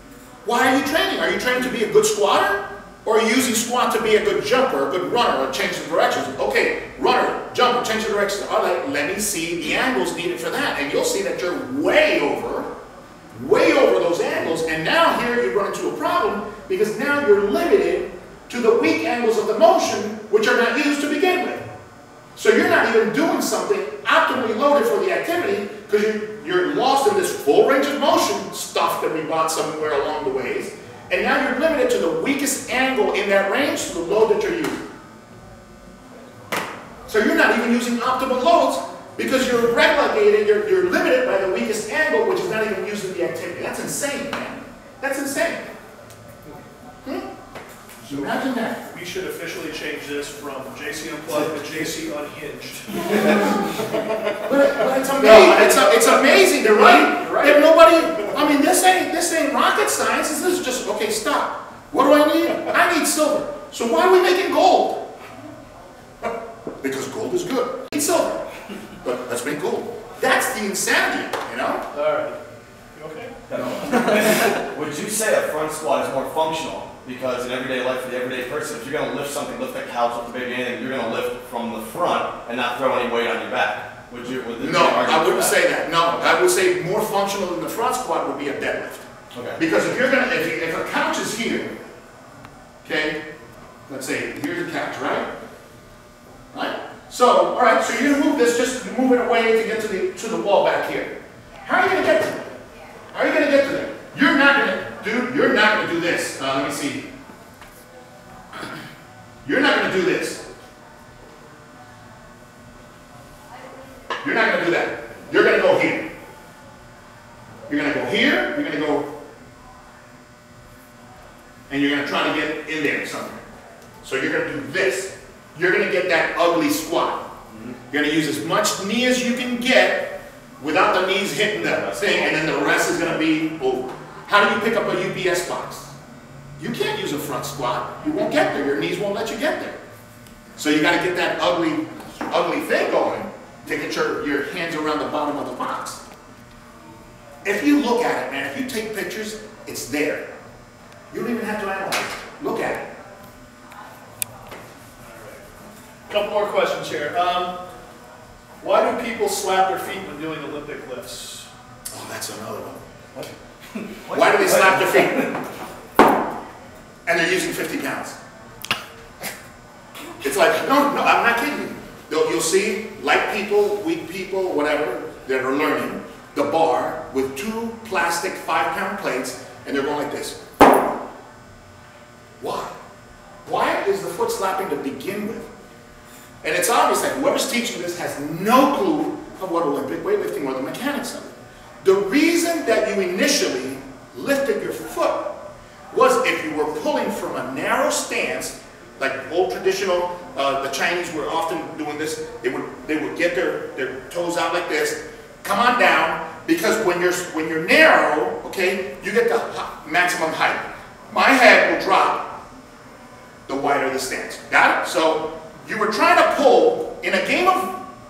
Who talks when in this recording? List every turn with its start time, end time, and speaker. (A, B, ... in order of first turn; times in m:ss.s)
0:00.4-0:12.7 A
0:13.3-0:21.7 A
0:22.3-0:34.8 A
0:37.1-0:45.7 A
0:48.0-0:48.8 A
0:48.8-0:54.0 B
0:54.4-1:05.1 A
0:55.2-0:57.6 B
1:06.8-1:08.5 A
1:09.0-1:11.8 A
1:11.9-1:12.4 B
1:12.9-1:13.4 B
1:13.5-1:25.6 C
1:13.5-1:14.0 A
1:24.6-1:31.8 A
1:29.3-1:29.6 C
1:32.8-1:33.2 A
1:33.9-1:35.3 A
1:36.5-1:42.5 A
1:43.1-1:47.0 A
1:49.4-1:50.4 A
1:54.2-1:56.1 A
1:57.7-1:59.1 A
2:01.7-2:03.4 A
2:04.0-2:07.2 A
2:07.9-2:15.9 A
2:16.6-2:19.8 A
2:20.6-2:26.0 A
2:27.4-2:30.3 A
2:31.1-2:32.9 A
2:36.1-2:37.6 B
2:38.6-2:41.5 B
2:41.9-2:42.8 A
2:43.9-2:45.3 C
2:44.1-2:45.4 A
2:47.0-2:48.2 A
2:50.2-3:00.4 A
3:02.4-3:02.7 A
3:03.4-3:05.5 A
3:06.4-3:15.4 A
3:15.9-3:32.4 A
3:33.5-3:37.8 A